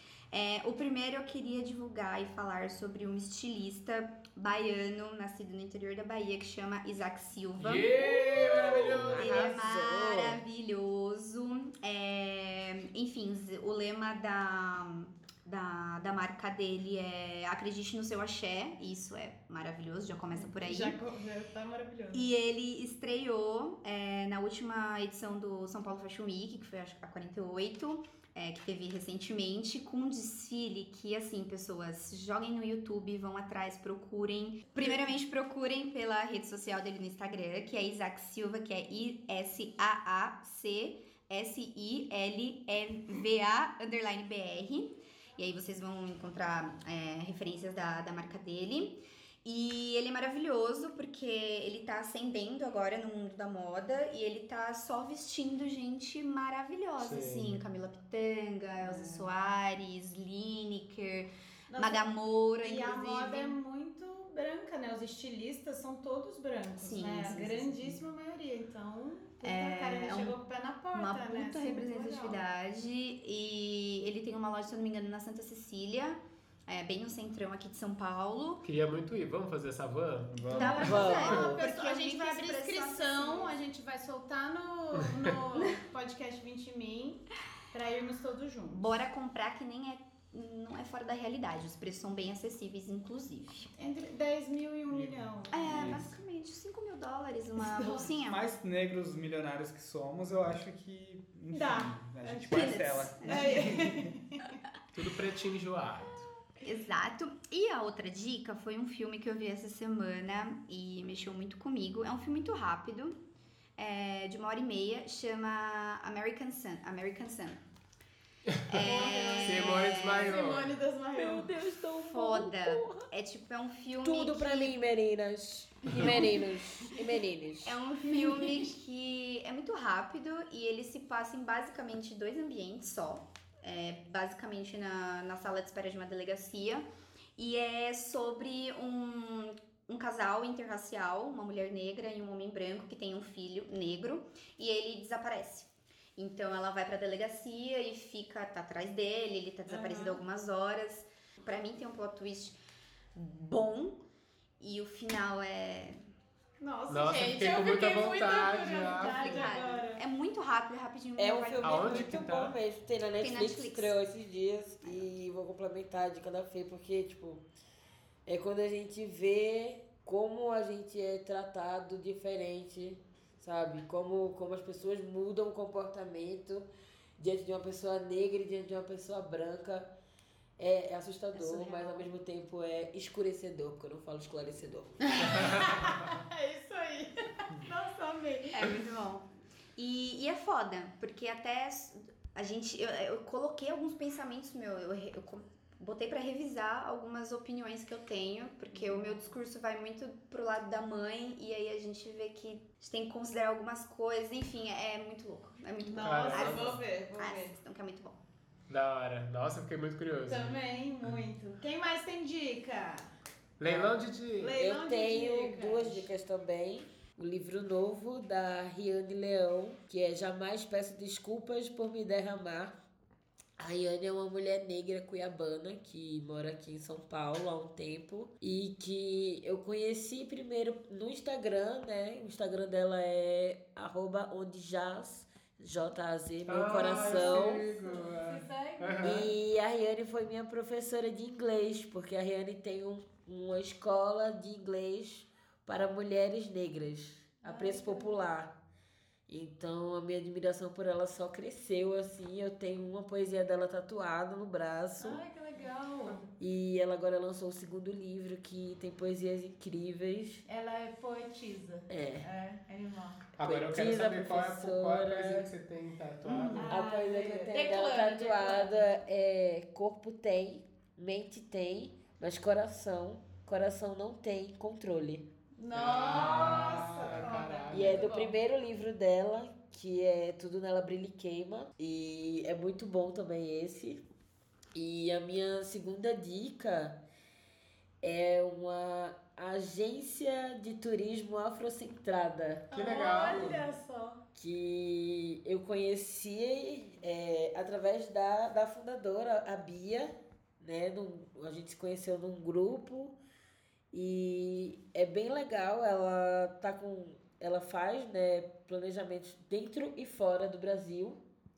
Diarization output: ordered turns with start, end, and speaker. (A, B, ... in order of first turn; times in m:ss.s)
0:00.3-0:21.0 A
0:07.6-0:09.4 B
0:09.1-0:10.4 C
0:20.3-0:22.3 D
0:22.1-1:03.6 A
0:57.0-0:57.6 B
0:58.8-0:59.3 D
1:01.7-1:12.4 D
1:06.8-1:08.0 A
1:09.4-1:10.4 A
1:10.9-1:18.6 A
1:18.6-1:20.4 B
1:20.3-1:21.0 E
1:20.5-1:29.0 D
1:20.5-1:23.6 A
1:20.8-1:21.6 C
1:28.8-1:33.7 A
1:33.8-1:36.1 D
1:34.9-1:36.1 E
1:35.5-1:38.4 A
1:37.6-1:38.1 D
1:38.3-1:44.2 E
1:41.5-1:44.6 D
1:42.5-1:43.8 A
1:44.9-1:46.2 B
1:46.6-1:53.2 A
1:53.8-1:57.6 A
1:58.7-2:00.4 A
1:58.7-2:01.6 D
1:59.1-2:00.7 B
2:01.1-2:03.1 C
2:02.0-2:04.8 A
2:04.0-2:07.8 C
2:05.9-2:06.4 A
2:07.6-2:32.6 A
2:08.1-2:08.7 D
2:29.7-2:30.2 D
2:33.2-2:34.0 A
2:34.6-2:36.0 A
2:36.6-2:40.0 D
2:36.9-2:39.5 B
2:39.0-2:42.2 A
2:41.2-2:47.4 C
2:41.6-2:42.5 B
2:43.2-2:44.0 A
2:44.8-2:45.1 A
2:48.3-2:59.9 C
3:00.6-3:05.6 C
3:01.4-3:02.0 A
3:05.1-3:08.8 D
3:08.5-3:09.3 A
3:09.8-3:28.2 A
3:18.7-3:19.2 D
3:25.8-3:27.6 D
3:26.0-3:26.8 B
3:28.7-3:30.6 B
3:30.3-3:33.1 D
3:33.6-3:34.6 B
3:33.6-3:34.0 C
3:34.4-3:36.1 D
3:34.6-3:42.7 C
3:43.6-3:57.7 C
3:56.5-3:59.3 B
3:56.9-3:59.3 D
3:59.0-4:08.6 C
4:07.4-4:08.2 D
4:09.3-4:15.2 C
4:15.0-4:16.3 D
4:16.4-4:20.4 C
4:20.5-4:23.2 D
4:21.9-4:22.3 C
4:23.4-4:26.7 B
4:23.4-4:25.5 C
4:26.3-4:28.9 D
4:26.6-4:35.3 C
4:35.6-4:38.4 D
4:35.7-4:38.0 B
4:37.7-4:44.0 C
4:44.7-4:47.0 C
4:48.0-4:52.7 C
4:52.7-4:54.2 D
4:52.7-4:53.7 B
4:54.4-5:03.2 C
5:03.9-5:11.2 C